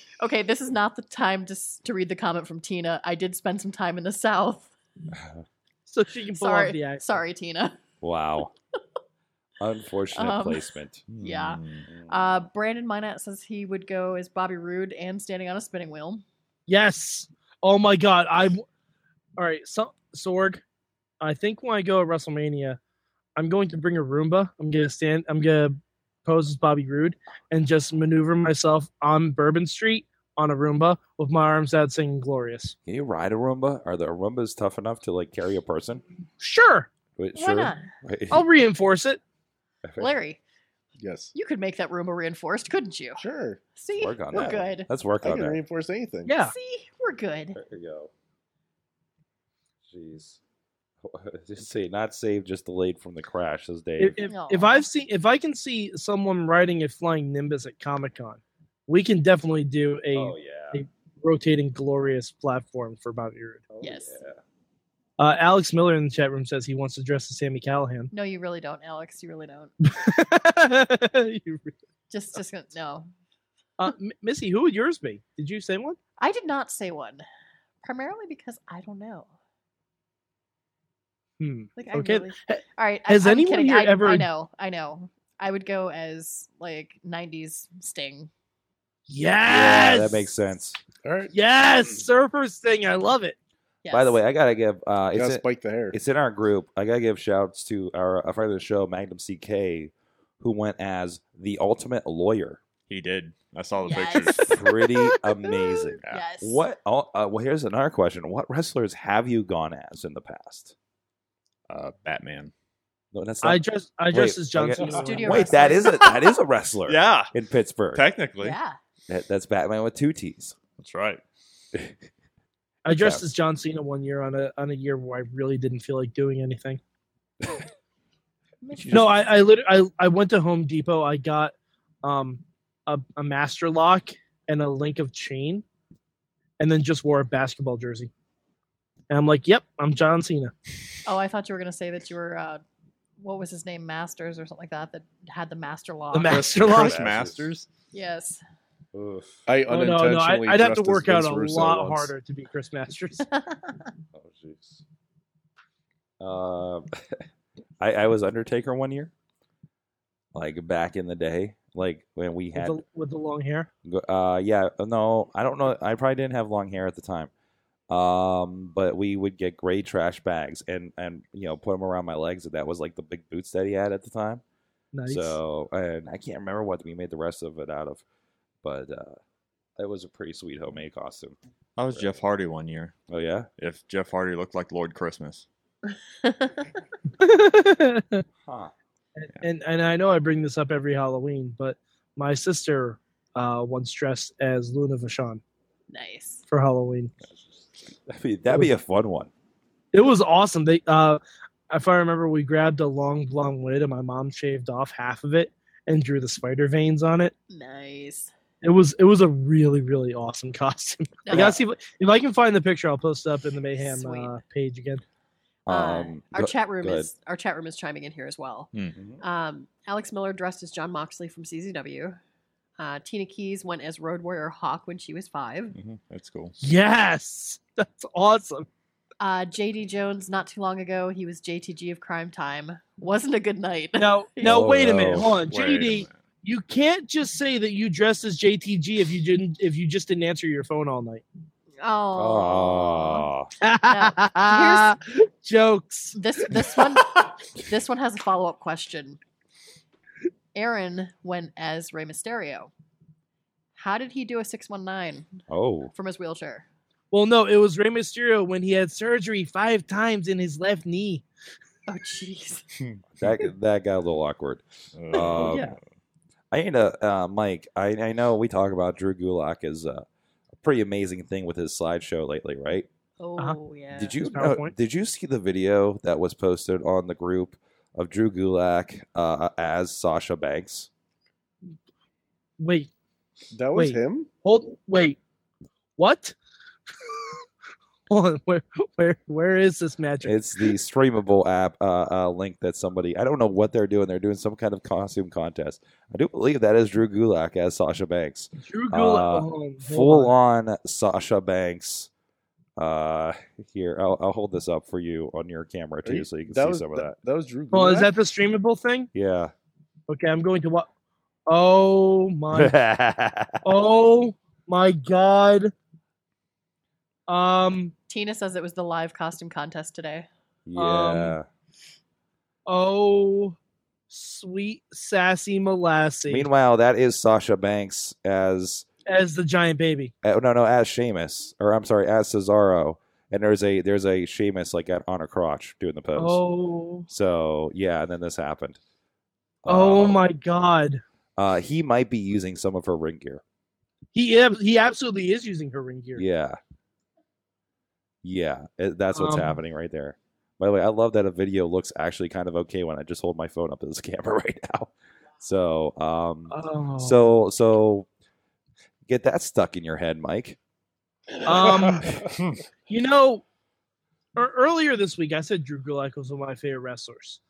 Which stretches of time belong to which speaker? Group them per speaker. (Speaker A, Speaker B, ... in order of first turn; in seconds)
Speaker A: 0.2-4.7, 6.3-7.8, 10.1-16.2, 37.3-37.9, 40.0-40.4, 41.3-43.2, 43.8-44.9, 46.4-47.6, 54.2-54.9, 63.8-64.2, 68.1-69.7, 72.1-73.1, 76.2-77.2, 77.8-79.3, 81.8-88.3, 93.8-94.2, 103.8-106.6, 114.8-116.3, 118.4-118.8, 128.6-129.1, 141.1-142.6, 143.2-146.6, 147.9-148.4, 153.3-153.9, 186.2-186.7, 195.9-196.4, 207.5-208.3, 211.3-211.6, 213.8-214.4, 215.7-222.2, 222.8-225.8, 229.2-234.7, 241.8-243.3, 243.9-245.0, 246.1-249.2, 250.6-252.7, 253.8-255.4, 255.9-256.6, 261.9-262.7, 265.1-265.7, 273.2-274.2, 318.1-320.3
Speaker B: 5.1-5.4, 8.0-8.5, 9.6-11.2, 11.9-12.4, 32.9-36.0, 37.2-38.4, 39.8-40.1, 44.0-45.6, 47.5-48.1, 49.9-50.4, 51.0-54.2, 60.1-60.8, 63.8-64.4, 89.5-90.8, 93.9-102.6, 104.3-110.7, 113.1-118.0, 119.1-120.5, 122.9-123.2, 146.6-147.5, 148.9-149.5, 154.1-154.8, 156.2-157.2, 157.8-159.1, 160.3-162.8, 163.8-167.3, 167.9-174.4, 175.1-178.0, 178.6-179.2, 179.8-181.4, 183.1-183.5, 188.4-188.7, 198.1-199.3, 215.7-217.1, 218.9-219.2, 234.4-235.3, 242.1-243.5, 255.5-255.9, 263.2-265.8, 266.5-270.1, 270.6-272.9, 273.9-280.9, 290.2-302.1, 302.8-307.2, 309.1-309.5, 312.5-313.6, 320.7-321.5, 326.3-328.9, 330.2-336.4, 337.1-338.8, 339.6-340.3, 341.4-343.4, 346.2-346.6, 348.2-358.1, 359.1-360.6
Speaker C: 5.9-7.2, 16.7-18.6, 19.4-20.6, 21.2-22.8, 23.4-32.8, 36.4-36.9, 38.3-39.2, 46.3-46.5, 54.0-63.7, 65.2-68.1, 69.9-71.8, 73.8-76.0, 81.4-84.3, 89.1-90.3, 91.3-93.4, 113.4-115.5, 122.8-126.8, 128.9-135.7, 136.6-138.1, 139.1-140.5, 146.1-147.0, 149.7-153.3, 162.6-163.7, 174.9-175.4, 187.2-188.2, 189.2-195.4, 196.5-197.1, 199.9-207.3, 208.6-215.0, 226.6-228.7, 234.0-241.2, 243.6-246.2, 257.1-261.2, 274.2-274.7, 282.6-282.9, 283.7-285.2, 286.0-286.4, 287.0-287.4, 288.1-290.4, 298.6-300.3, 307.7-309.1, 310.1-310.9, 311.5-312.8, 313.6-315.7, 317.3-317.9, 320.8-321.4, 322.7-323.6, 324.1-326.5, 329.1-330.1, 336.2-337.1, 339.7-341.0, 344.1-346.2, 349.1-349.6, 356.5-357.2, 361.4-362.1, 362.9-363.4, 364.4-367.4
Speaker D: 11.1-11.8, 102.9-104.5, 111.7-112.5, 116.9-117.3, 117.9-118.6, 120.8-121.2, 146.2-147.7, 181.8-182.9, 183.6-185.5, 225.7-226.6, 235.5-236.1, 264.9-265.8
Speaker E: 41.0-41.3, 43.2-43.6, 44.3-44.7, 45.2-46.4, 91.0-91.3, 95.1-96.0, 149.5-152.1, 283.5-284.3, 306.1-308.1, 361.4-362.3